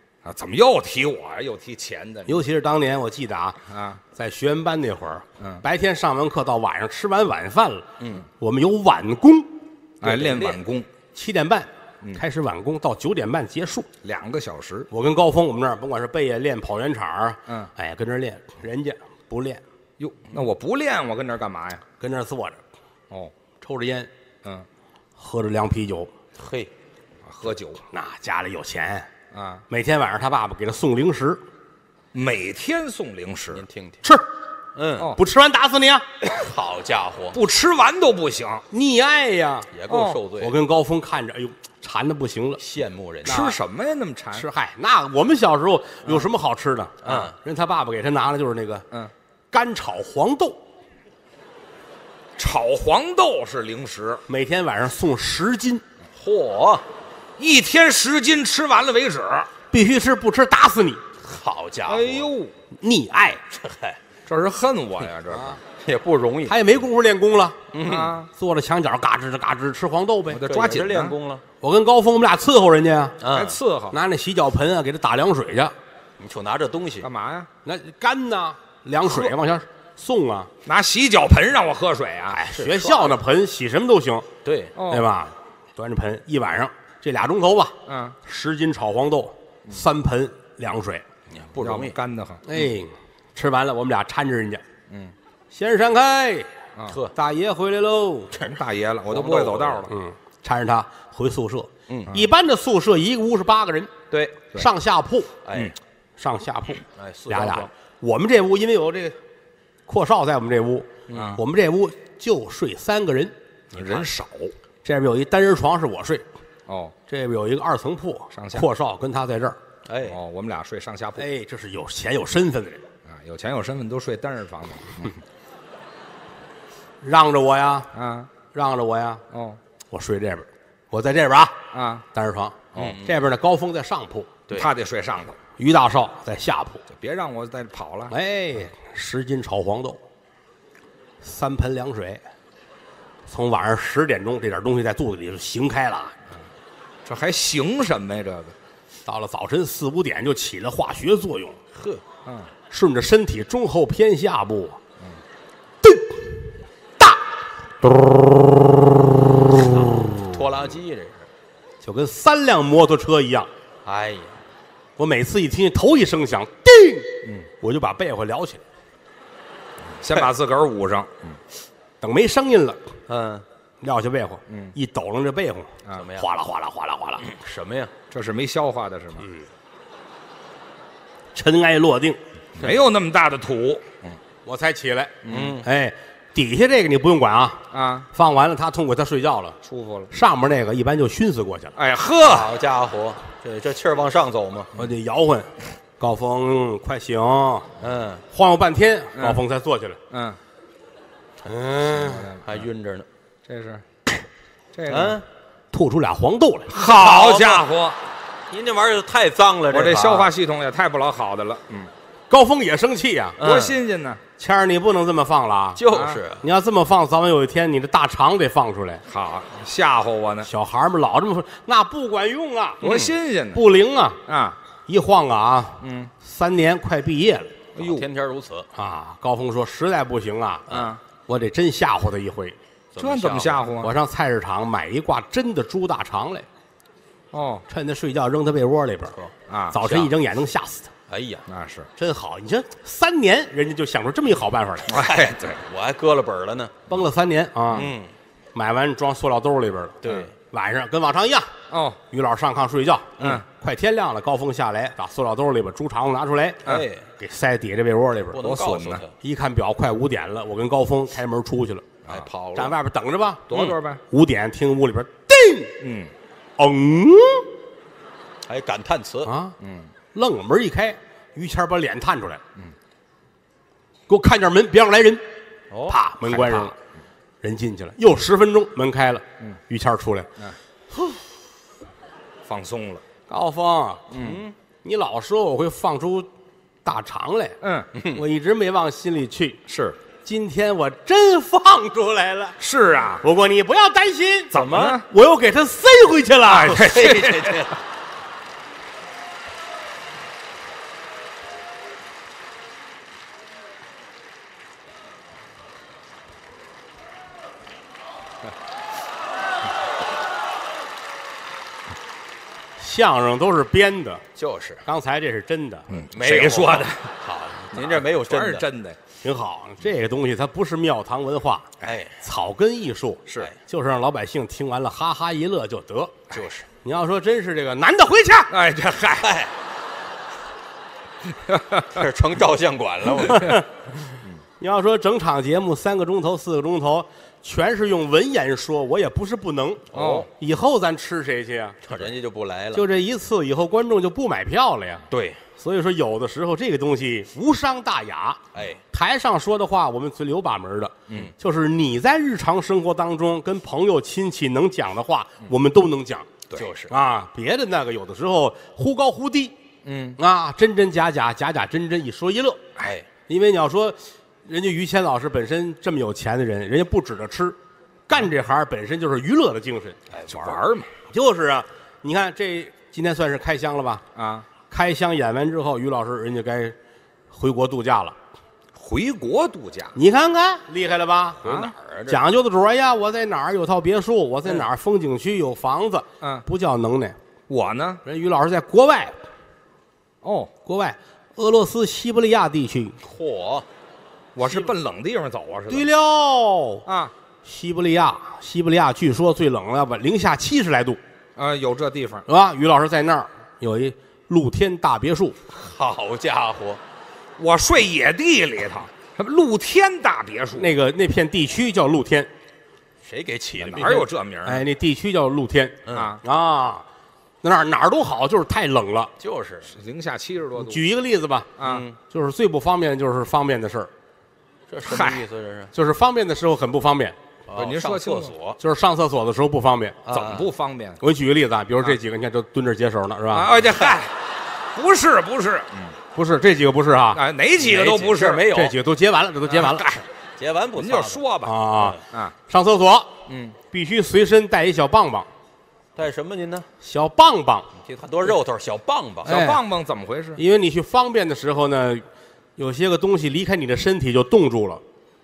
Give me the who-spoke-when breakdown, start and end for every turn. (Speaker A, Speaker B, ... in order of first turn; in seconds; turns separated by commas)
Speaker A: 0.2-2.4, Speaker B: 2.2-3.6, Speaker A: 3.7-4.0, Speaker B: 4.1-7.9, Speaker A: 5.4-5.6, Speaker C: 8.0-8.2, Speaker B: 8.4-9.6, Speaker A: 10.0-10.9, Speaker C: 10.0-10.6, Speaker B: 11.1-13.9, Speaker A: 14.0-14.9, Speaker B: 14.9-19.6, Speaker A: 20.0-21.8, Speaker B: 22.0-22.6, Speaker B: 23.6-24.1, Speaker B: 25.2-26.1, Speaker C: 26.4-26.7, Speaker A: 27.2-27.8, Speaker B: 27.9-29.1, Speaker A: 29.3-29.6, Speaker B: 29.7-31.4, Speaker A: 32.1-33.6, Speaker C: 33.5-34.0, Speaker C: 34.7-35.1, Speaker B: 35.1-36.0, Speaker C: 36.3-37.4, Speaker A: 37.3-38.6, Speaker B: 38.7-39.7, Speaker C: 39.7-40.5, Speaker A: 39.9-40.2, Speaker B: 40.4-42.6, Speaker C: 42.6-43.4, Speaker A: 43.2-44.5, Speaker B: 43.3-43.6, Speaker B: 44.3-48.9, Speaker C: 47.0-47.4, Speaker B: 49.5-50.6, Speaker A: 52.4-54.2, Speaker B: 54.3-55.8, Speaker C: 56.1-56.8, Speaker A: 57.4-59.5, Speaker B: 59.7-61.0, Speaker C: 61.2-62.3, Speaker A: 61.9-62.5, Speaker B: 62.8-63.4, Speaker C: 63.5-64.0, Speaker A: 64.3-65.6, Speaker B: 65.3-65.6, Speaker C: 65.8-66.6, Speaker B: 66.5-67.6, Speaker C: 67.7-68.2, Speaker A: 67.8-68.3, Speaker B: 68.3-70.4, Speaker A: 70.3-71.2, Speaker C: 70.4-71.4, Speaker B: 71.6-73.2, Speaker C: 73.2-73.6, Speaker A: 73.3-74.0, Speaker B: 73.9-75.7, Speaker C: 76.2-77.1, Speaker A: 77.0-77.5, Speaker B: 77.6-80.5, Speaker A: 79.1-79.3, Speaker A: 80.6-82.4, Speaker B: 82.3-84.3, Speaker C: 82.5-83.2, Speaker C: 84.4-84.7, Speaker A: 84.8-85.1, Speaker B: 84.9-91.0, Speaker A: 87.9-88.2, Speaker C: 91.3-92.0, Speaker A: 91.6-92.4, Speaker B: 92.4-94.6, Speaker A: 94.9-95.1, Speaker B: 95.5-96.5, Speaker C: 96.9-97.1, Speaker B: 97.1-98.3, Speaker A: 98.3-99.9, Speaker C: 99.1-99.9, Speaker B: 99.9-103.9, Speaker C: 101.9-102.2, Speaker C: 104.1-104.4, Speaker B: 104.5-105.4, Speaker C: 105.4-105.7, Speaker B: 106.2-109.2, Speaker C: 107.0-107.7, Speaker B: 109.9-113.3, Speaker C: 111.1-111.4, Speaker A: 111.1-111.4, Speaker C: 113.7-114.1, Speaker A: 113.7-114.5, Speaker B: 114.8-116.2, Speaker A: 116.7-116.9, Speaker B: 117.1-119.6, Speaker A: 118.3-118.7, Speaker C: 119.9-120.2, Speaker A: 120.1-121.2, Speaker B: 121.2-122.9, Speaker A: 123.0-125.2, Speaker B: 127.0-127.9, Speaker A: 127.9-128.3, Speaker B: 128.5-129.2, Speaker A: 129.3-129.6, Speaker B: 129.9-131.6, Speaker A: 131.7-132.1, Speaker B: 132.1-134.3, Speaker C: 132.8-133.1, Speaker A: 134.5-135.4, Speaker B: 135.6-136.8, Speaker A: 136.9-138.1, Speaker B: 138.1-140.0, Speaker B: 141.2-142.2, Speaker B: 143.3-146.2, Speaker A: 147.1-148.6, Speaker B: 149.1-151.6, Speaker C: 151.7-152.0, Speaker A: 152.2-152.5, Speaker B: 152.7-154.8, Speaker B: 155.8-156.4, Speaker C: 159.5-161.3, Speaker B: 161.8-163.5, Speaker C: 163.8-164.3, Speaker B: 165.0-168.6, Speaker A: 170.0-171.4, Speaker B: 172.0-172.9, Speaker C: 173.1-173.4, Speaker B: 173.8-177.3, Speaker C: 175.9-176.3, Speaker C: 177.2-177.9, Speaker A: 178.1-179.2, Speaker B: 181.3-182.2, Speaker A: 182.6-184.1, Speaker B: 184.4-189.6, Speaker C: 185.2-185.7, Speaker A: 185.3-185.6, Speaker A: 187.7-188.1, Speaker A: 189.6-190.1, Speaker B: 190.1-191.7, Speaker A: 191.8-192.5, Speaker C: 192.2-194.7, Speaker B: 194.8-197.7, Speaker C: 197.8-198.2, Speaker B: 198.3-200.0, Speaker A: 199.1-199.4, Speaker A: 200.1-200.4, Speaker C: 201.5-203.1, Speaker B: 201.5-202.1, Speaker A: 201.9-202.6, Speaker A: 203.5-203.8, Speaker A: 204.7-205.2, Speaker C: 204.9-205.2, Speaker B: 205.7-206.8, Speaker A: 206.7-208.0, Speaker C: 206.8-207.7, Speaker C: 208.5-210.3, Speaker A: 209.7-211.9, Speaker B: 212.3-213.4, Speaker C: 213.4-213.8, Speaker A: 213.4-214.2, Speaker B: 214.4-215.8, Speaker C: 215.8-216.4, Speaker A: 215.9-216.2, Speaker B: 216.4-219.0, Speaker A: 219.1-220.5, Speaker B: 220.4-224.2, Speaker A: 222.8-223.6, Speaker C: 222.8-223.1, Speaker A: 224.3-224.6, Speaker B: 224.9-227.6, Speaker A: 225.8-226.1, Speaker A: 227.8-228.1, Speaker C: 227.8-228.7, Speaker B: 228.8-230.7, Speaker C: 230.7-231.0, Speaker A: 230.7-231.0, Speaker B: 231.3-232.6, Speaker C: 232.9-233.6, Speaker A: 233.0-233.9, Speaker B: 233.8-236.5, Speaker A: 237.3-237.6, Speaker B: 237.7-239.2, Speaker A: 239.5-239.9, Speaker B: 239.7-240.9, Speaker C: 241.1-241.4, Speaker A: 241.5-241.9, Speaker B: 242.0-245.0, Speaker A: 244.9-245.6, Speaker C: 244.9-246.9, Speaker B: 246.9-247.9, Speaker C: 247.7-248.1, Speaker B: 248.5-251.5, Speaker C: 250.0-250.3, Speaker A: 251.7-252.0, Speaker B: 252.1-258.5, Speaker C: 253.2-253.4, Speaker C: 256.6-257.1, Speaker C: 258.3-259.1, Speaker A: 258.4-259.0, Speaker B: 259.2-261.9, Speaker C: 262.1-262.8, Speaker B: 262.5-265.8, Speaker A: 263.5-264.0, Speaker A: 265.8-266.1, Speaker B: 266.6-267.5, Speaker C: 268.5-269.3, Speaker B: 269.2-269.6, Speaker A: 269.6-269.9, Speaker B: 270.1-272.4, Speaker B: 274.1-275.2, Speaker C: 275.7-276.0, Speaker B: 275.9-276.7, Speaker A: 276.3-276.7, Speaker B: 277.4-280.3, Speaker A: 282.5-283.0, Speaker B: 283.3-284.1, Speaker A: 284.1-284.4, Speaker C: 284.2-284.5, Speaker B: 284.8-286.3, Speaker B: 286.9-287.6, Speaker A: 287.6-287.9, Speaker C: 287.9-288.2, Speaker B: 288.1-289.6, Speaker A: 289.7-290.0, Speaker B: 290.2-292.6, Speaker A: 292.6-293.2, Speaker B: 293.2-297.0, Speaker A: 294.5-295.1, Speaker C: 294.5-295.0, Speaker A: 296.5-297.7, Speaker C: 296.6-297.8, Speaker B: 312.8-314.2, Speaker C: 314.4-314.8, Speaker B: 314.9-316.0, Speaker A: 315.9-317.1, Speaker C: 316.1-318.7, Speaker A: 317.7-319.0, Speaker B: 319.2-326.1, Speaker C: 321.8-322.2, Speaker C: 326.3-326.7, Speaker B: 326.8-328.5, Speaker A: 328.5-329.3, Speaker C: 329.2-329.5, Speaker A: 331.3-332.0, Speaker C: 331.9-333.6, Speaker B: 333.1-333.7, Speaker B: 334.6-341.8, Speaker C: 339.9-340.3, Speaker A: 339.9-340.3, Speaker C: 341.9-342.9, Speaker B: 342.7-356.3, Speaker C: 345.1-345.4, Speaker C: 348.5-348.8, Speaker C: 356.5-356.9, Speaker B: 356.9-359.5, Speaker A: 359.8-360.2, Speaker B: 360.2-362.6, Speaker C: 362.8-363.1, Speaker B: 363.3-367.6, Speaker B: 368.1-370.0, Speaker C: 370.1-370.6, Speaker A: 370.3-370.9, Speaker B: 371.1-374.0, Speaker A: 374.1-374.5, Speaker B: 374.7-376.8, Speaker B: 377.3-378.1, Speaker A: 378.8-379.9, Speaker B: 379.9-381.4, Speaker C: 381.4-382.2, Speaker A: 381.4-381.7, Speaker B: 382.1-387.2, Speaker A: 387.5-388.0, Speaker B: 388.0-389.1, Speaker A: 390.2-390.5, Speaker B: 390.6-392.9, Speaker C: 393.0-393.6, Speaker A: 394.4-395.9, Speaker B: 395.7-396.9, Speaker A: 396.9-397.1, Speaker B: 397.4-401.0, Speaker A: 401.4-402.2, Speaker B: 402.3-405.4, Speaker C: 405.5-406.8, Speaker A: 407.4-410.7, Speaker B: 410.5-412.3, Speaker C: 413.0-414.0, Speaker B: 413.6-416.9, Speaker A: 413.7-414.6, Speaker C: 415.9-416.1, Speaker A: 415.9-416.2, Speaker B: 417.4-419.1, Speaker C: 419.2-419.7, Speaker A: 419.7-420.8, Speaker B: 420.6-421.5, Speaker A: 421.6-421.9, Speaker C: 421.6-422.0, Speaker B: 422.1-423.9, Speaker C: 424.7-425.7, Speaker A: 424.9-425.2, Speaker B: 425.7-427.1, Speaker C: 427.5-428.6, Speaker A: 427.5-428.3, Speaker B: 428.6-430.0, Speaker C: 430.1-430.5, Speaker A: 430.1-431.0, Speaker B: 431.0-433.6, Speaker A: 433.3-434.1, Speaker A: 434.7-436.0, Speaker B: 436.1-437.2, Speaker A: 437.1-438.6, Speaker C: 437.6-438.7, Speaker B: 438.5-440.0, Speaker A: 439.5-439.9, Speaker C: 440.4-441.2, Speaker A: 440.8-442.4, Speaker B: 441.4-443.1, Speaker A: 443.3-443.6, Speaker B: 443.7-445.3, Speaker C: 446.0-446.7, Speaker B: 446.8-447.7, Speaker C: 447.8-449.4, Speaker A: 449.2-450.4, Speaker B: 449.3-449.6, Speaker B: 450.4-452.0, Speaker B: 452.6-454.8